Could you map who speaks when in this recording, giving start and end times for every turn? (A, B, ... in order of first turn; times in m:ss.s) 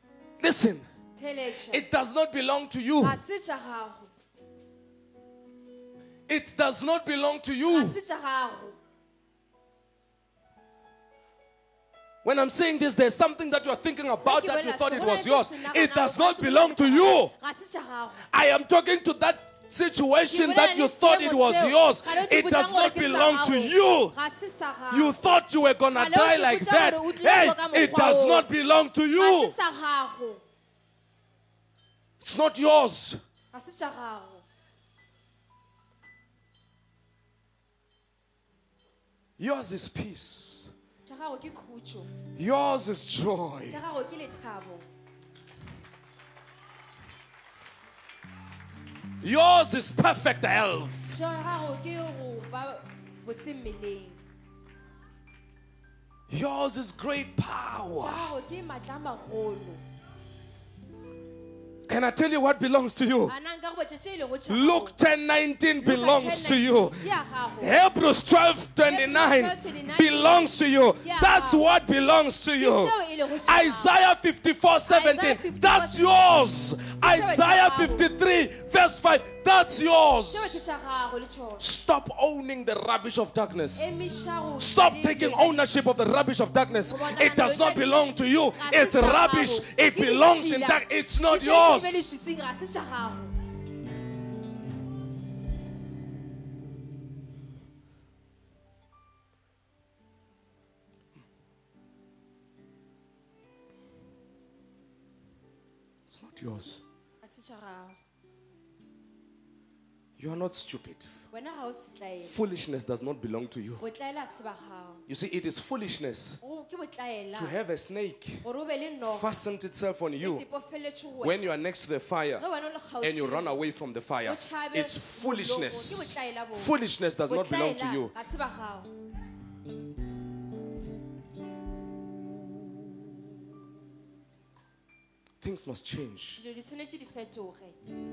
0:00.4-0:00.9 A
0:01.2-0:01.8 B
0:01.7-0:03.2 A
0:03.0-0:04.1 B
0:06.3-0:08.0 A
0:07.7-0:08.8 B
0:12.2-0:17.3 A
0:14.2-0:18.3 B
0:18.3-0:24.2 A
0:20.3-0:25.3 B
0:24.9-0:29.6 A
0:25.9-0:28.5 B
0:29.2-0:30.4 B
0:32.2-0:33.2 A
0:33.5-0:34.4 B
0:39.4-0:40.7 A
0:41.1-0:42.1 B
0:42.4-0:43.8 A
0:43.7-0:44.9 B
0:49.2-0:51.2 A
0:51.1-0:54.2 B
0:56.3-0:58.3 A
0:58.0-0:59.8 B
1:01.9-1:03.4 A
1:03.3-1:05.0 B
1:04.5-1:20.6 A
1:05.8-1:07.8 B
1:08.8-1:11.6 B
1:12.6-1:13.9 B
1:14.9-1:16.1 B
1:17.0-1:18.1 B
1:20.3-1:21.7 B
1:21.6-1:23.9 A
1:23.8-1:26.0 B
1:24.6-1:32.1 A
1:26.9-1:33.3 B
1:46.1-1:46.8 A
1:47.2-1:48.0 B
1:50.2-1:51.2 A
1:51.3-1:52.4 B
1:52.2-1:53.8 A
1:53.8-1:55.0 B
1:55.1-1:56.4 A
1:56.4-1:57.6 B
1:57.4-1:58.4 A
1:58.4-1:59.3 B
1:59.0-2:00.5 A
2:00.2-2:01.4 B
2:01.2-2:02.4 A
2:02.4-2:03.6 B
2:03.0-2:08.1 A
2:04.2-2:06.8 B
2:07.3-2:08.9 B
2:15.4-2:16.4 A
2:16.4-2:17.8 B